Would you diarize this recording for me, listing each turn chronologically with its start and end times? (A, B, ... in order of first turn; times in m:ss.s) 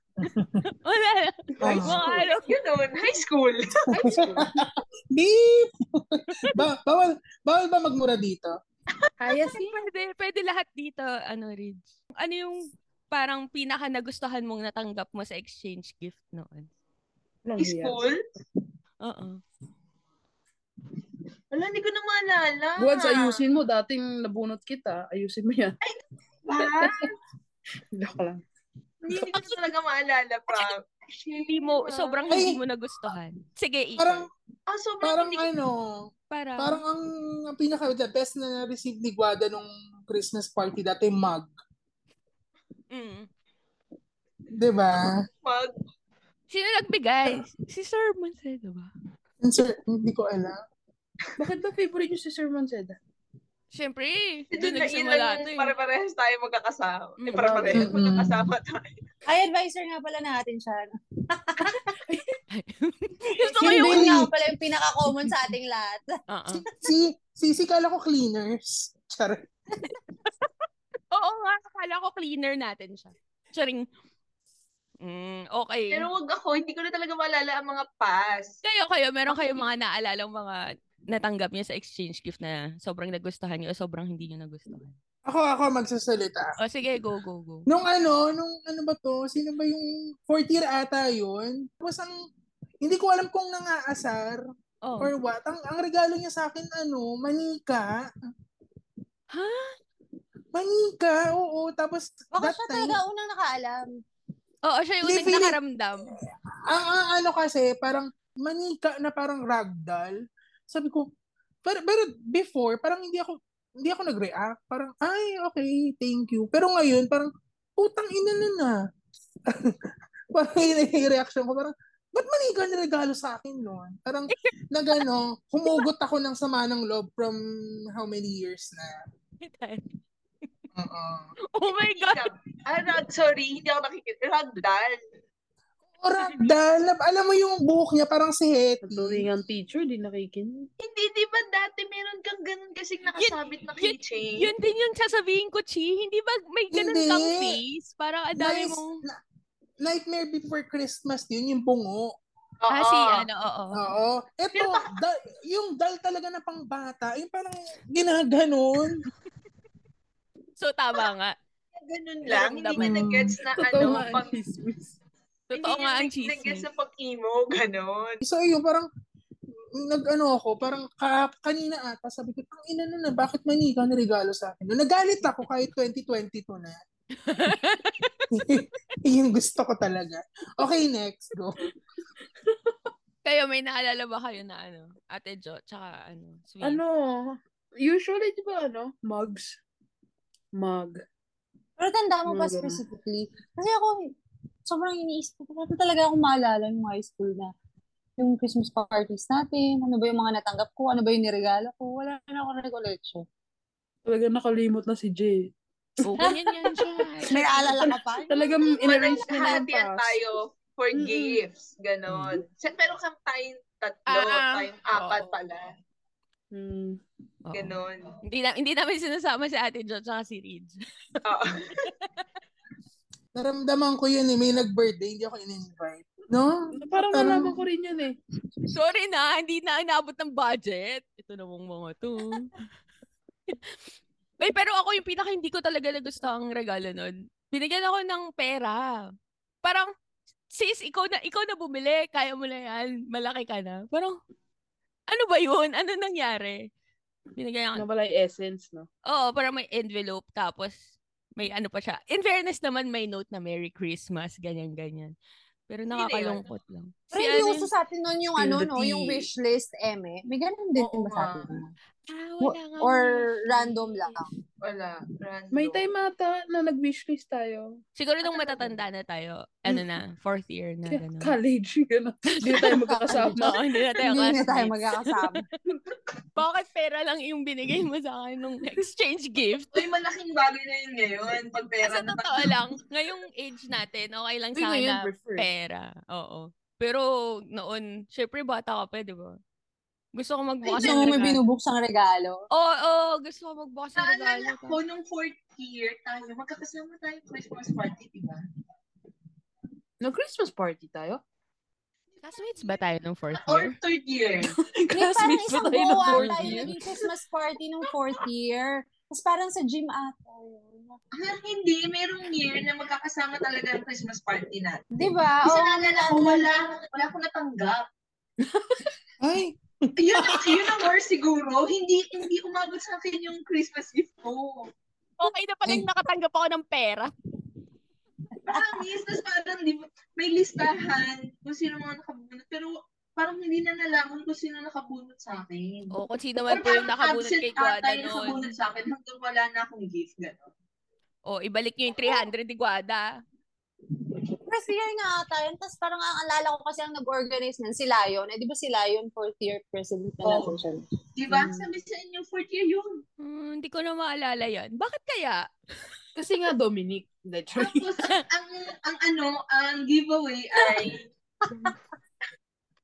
0:00.2-0:00.6 A
0:00.6-0:02.6 B
0:01.6-0:02.0 A
0:01.7-0:02.3 C
0:02.5-0:03.9 D
0:03.9-0:04.5 C
0:04.0-0:08.6 A
0:09.0-0:09.4 D
0:09.2-0:09.8 C
0:09.3-0:16.7 B
0:17.4-0:18.0 C
0:17.6-0:18.2 D
0:19.0-0:19.4 B
0:21.5-0:23.4 D
0:22.8-0:25.8 C
0:25.8-0:27.1 D
0:26.6-0:27.1 C
0:27.9-0:28.4 C
0:29.0-0:32.4 D
0:29.1-0:29.6 B
0:31.4-0:34.3 B
0:32.3-0:32.6 A
0:34.0-0:34.3 A
0:34.7-0:35.5 D
0:35.0-0:41.5 A
0:36.3-0:36.8 B
0:42.9-0:43.3 B
0:44.5-0:45.2 A
0:45.4-0:45.7 D
0:46.5-0:48.9 B
0:49.4-0:50.6 A
0:51.4-0:53.0 C
0:53.7-0:55.7 B
0:54.5-0:59.0 D
0:57.2-0:57.8 B
0:57.7-0:58.0 C
0:57.8-0:58.5 A
0:59.3-1:01.9 E
1:02.1-1:02.4 C
1:02.5-1:04.2 B
1:03.6-1:04.3 A
1:03.6-1:06.2 E
1:06.3-1:06.7 B
1:06.7-1:09.5 A
1:09.9-1:10.5 B
1:11.1-1:13.9 B
1:15.0-1:16.1 B
1:15.9-1:18.6 D
1:18.6-1:20.6 B
1:19.3-1:19.6 D
1:21.1-1:25.0 B
1:25.3-1:26.6 A
1:26.6-1:27.7 B
1:27.7-1:32.1 A
1:32.8-1:34.4 A
1:34.8-1:35.1 B
1:35.0-1:38.1 A
1:39.3-1:39.8 B
1:40.5-1:43.0 A
1:42.3-1:43.9 E
1:44.6-1:46.1 B
1:45.0-1:45.6 A
1:46.1-1:51.1 A
1:51.6-1:58.8 A
1:59.5-1:59.8 A
2:00.3-2:07.4 A
2:07.9-2:09.0 A
2:09.4-2:09.8 B
2:10.8-2:11.3 A
2:11.5-2:12.3 B
2:11.7-2:15.0 D
2:16.0-2:19.3 A
2:16.2-2:16.5 B
2:18.8-2:20.7 C
2:20.8-2:24.5 D
2:23.2-2:29.0 B
2:26.7-2:27.6 A
2:28.4-2:29.2 A
2:29.8-2:32.1 A
2:32.6-2:33.3 D
2:32.7-2:33.8 B
2:33.8-2:39.0 A
2:40.6-2:41.4 B
2:41.8-2:44.4 D
2:42.3-2:42.9 B
2:42.8-2:43.4 A
2:43.6-2:44.9 C
2:45.5-2:46.7 B
2:45.6-2:48.2 D
2:48.2-2:48.9 A
2:49.7-2:56.8 A
2:57.2-2:58.3 B
2:58.3-3:01.6 A
3:02.4-3:02.9 C
3:03.2-3:06.8 B
3:06.6-3:09.6 C
3:10.6-3:11.0 C
3:11.8-3:14.1 E
3:12.3-3:12.8 C
3:14.7-3:17.5 E
3:18.2-3:23.2 E
3:24.1-3:27.0 C
3:26.0-3:27.9 B
3:27.3-3:29.7 E
3:28.3-3:30.2 C
3:28.8-3:35.7 D
3:30.9-3:31.4 C
3:34.1-3:35.4 B
3:36.5-3:37.0 C
3:37.5-3:40.8 B
3:37.5-3:38.2 D
3:41.2-3:41.7 D
3:43.3-3:47.6 A
3:46.7-3:48.2 C
3:48.7-3:52.5 B
3:54.4-3:59.0 B
3:59.6-3:59.9 B
4:00.5-4:04.2 B
4:05.1-4:06.7 B
4:07.4-4:07.8 B
4:07.8-4:08.9 C
4:09.1-4:15.1 B
4:15.7-4:17.7 B
4:16.0-4:16.4 D
4:17.1-4:21.7 E
4:18.4-4:19.3 C
4:20.8-4:21.5 C
4:22.1-4:24.2 B
4:22.4-4:24.3 E
4:24.6-4:25.8 D
4:25.5-4:28.8 C
4:28.0-4:31.4 B
4:30.9-4:33.6 C
4:32.4-4:35.4 B
4:33.1-4:33.4 E
4:34.0-4:35.4 E
4:36.4-4:39.9 B
4:39.7-4:42.6 D
4:41.8-4:49.4 B
4:44.6-4:45.5 C
4:50.2-4:51.4 B
4:50.8-4:51.1 D
4:50.8-4:52.4 E
4:52.5-4:54.8 B
4:54.0-4:58.4 D
5:00.0-5:01.2 C
5:02.2-5:03.8 B
5:03.4-5:04.5 D
5:04.4-5:07.0 C
5:05.0-5:11.0 E
5:05.0-5:06.7 B
5:11.2-5:14.8 D
5:15.0-5:16.6 E
5:15.4-5:17.8 D
5:18.4-5:18.9 C
5:19.2-5:20.9 A
5:20.0-5:24.7 D
5:25.2-5:27.1 B
5:28.5-5:35.9 D
5:35.9-5:38.4 B
5:36.5-5:40.5 D
5:41.3-5:43.1 B
5:44.5-5:50.8 E
5:50.3-5:50.5 D
5:51.2-5:53.0 D
5:51.3-5:51.7 C
5:53.2-5:55.5 B
5:56.2-5:57.9 C
5:57.6-6:01.1 D